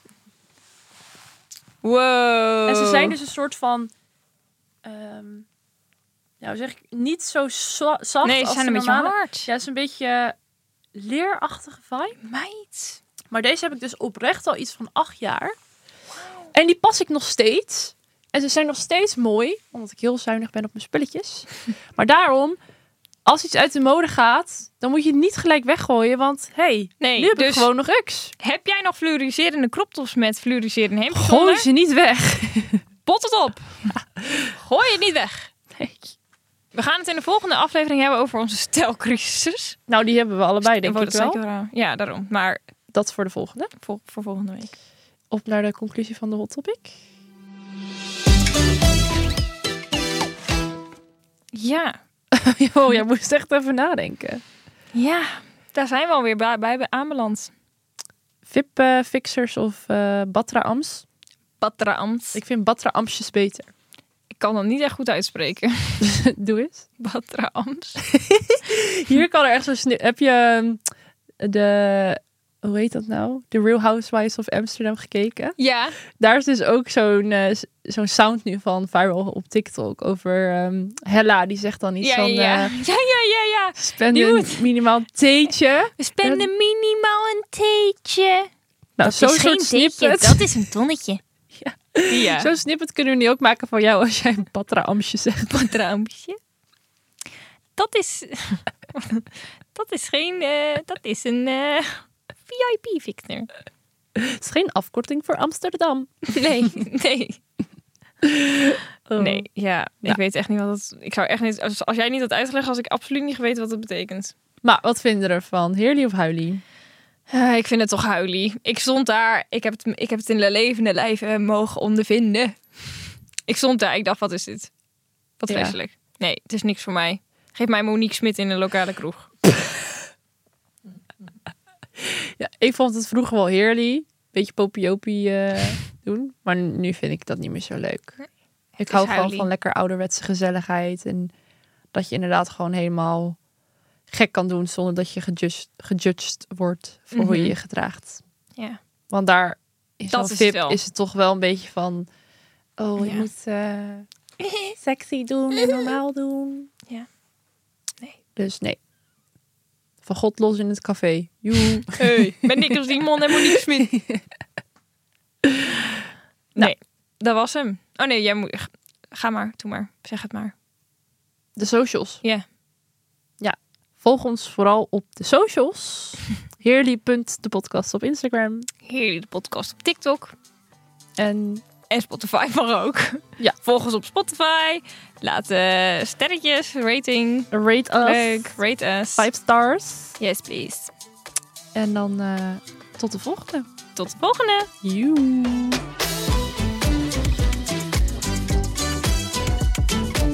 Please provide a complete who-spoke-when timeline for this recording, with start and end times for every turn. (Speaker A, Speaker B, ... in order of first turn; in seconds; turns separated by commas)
Speaker A: 1.8-3.2, Speaker B: 2.7-3.9, Speaker B: 4.8-5.5, Speaker B: 6.4-10.4, Speaker A: 8.2-9.5, Speaker B: 10.9-12.2, Speaker A: 12.2-13.0, Speaker B: 13.3-15.6, Speaker B: 16.5-22.6, Speaker B: 23.3-28.3, Speaker A: 27.0-27.7, Speaker A: 28.4-31.7, Speaker B: 31.1-32.8, Speaker A: 33.0-33.9, Speaker B: 33.9-34.5, Speaker A: 34.6-35.5, Speaker B: 35.7-36.1, Speaker A: 36.7-39.8, Speaker B: 39.9-41.4, Speaker A: 40.6-42.6, Speaker B: 42.9-43.7, Speaker A: 43.8-44.7, Speaker B: 45.3-47.0, Speaker A: 51.5-52.0, Speaker B: 52.3-54.4, Speaker A: 54.9-57.5, Speaker B: 58.5-61.0, Speaker A: 61.6-62.4, Speaker B: 62.4-63.7, Speaker A: 64.3-66.1, Speaker B: 66.0-66.8, Speaker A: 67.0-68.0, Speaker B: 68.1-70.8, Speaker B: 71.4-75.5, Speaker A: 75.6-76.0, Speaker B: 76.2-82.7, Speaker A: 82.0-84.7, Speaker B: 83.8-86.5, Speaker A: 86.0-88.5, Speaker B: 89.0-90.7, Speaker A: 89.0-91.2, Speaker B: 91.5-95.7, Speaker A: 92.1-92.5, Speaker A: 95.5-96.4, Speaker A: 97.8-103.5, Speaker B: 104.2-106.8, Speaker A: 106.3-107.4, Speaker B: 108.2-109.5, Speaker A: 109.2-114.3, Speaker B: 114.6-116.6, Speaker A: 117.3-122.6, Speaker A: 123.5-124.7, Speaker A: 125.4-129.3, Speaker B: 125.5-125.8, Speaker B: 132.0-138.2, Speaker A: 138.8-139.5, Speaker B: 138.8-141.3, Speaker B: 141.9-143.4, Speaker B: 144.1-148.2, Speaker A: 147.1-147.5, Speaker B: 149.1-152.1, Speaker A: 150.1-150.8, Speaker B: 152.8-154.1, Speaker A: 153.0-153.3, Speaker A: 154.4-154.8, Speaker B: 154.8-156.7, Speaker A: 155.6-155.9, Speaker B: 158.4-158.8, Speaker B: 160.1-162.5, Speaker A: 161.9-163.9, Speaker B: 163.5-164.2, Speaker A: 166.6-170.5, Speaker B: 171.6-172.2, Speaker B: 173.4-178.7, Speaker A: 178.8-180.3, Speaker B: 181.2-181.6, Speaker A: 181.9-187.5, Speaker B: 187.5-188.5, Speaker A: 188.0-189.3, Speaker B: 189.2-190.2, Speaker A: 190.2-190.9, Speaker B: 191.8-193.7, Speaker A: 193.9-194.7, Speaker B: 194.8-195.8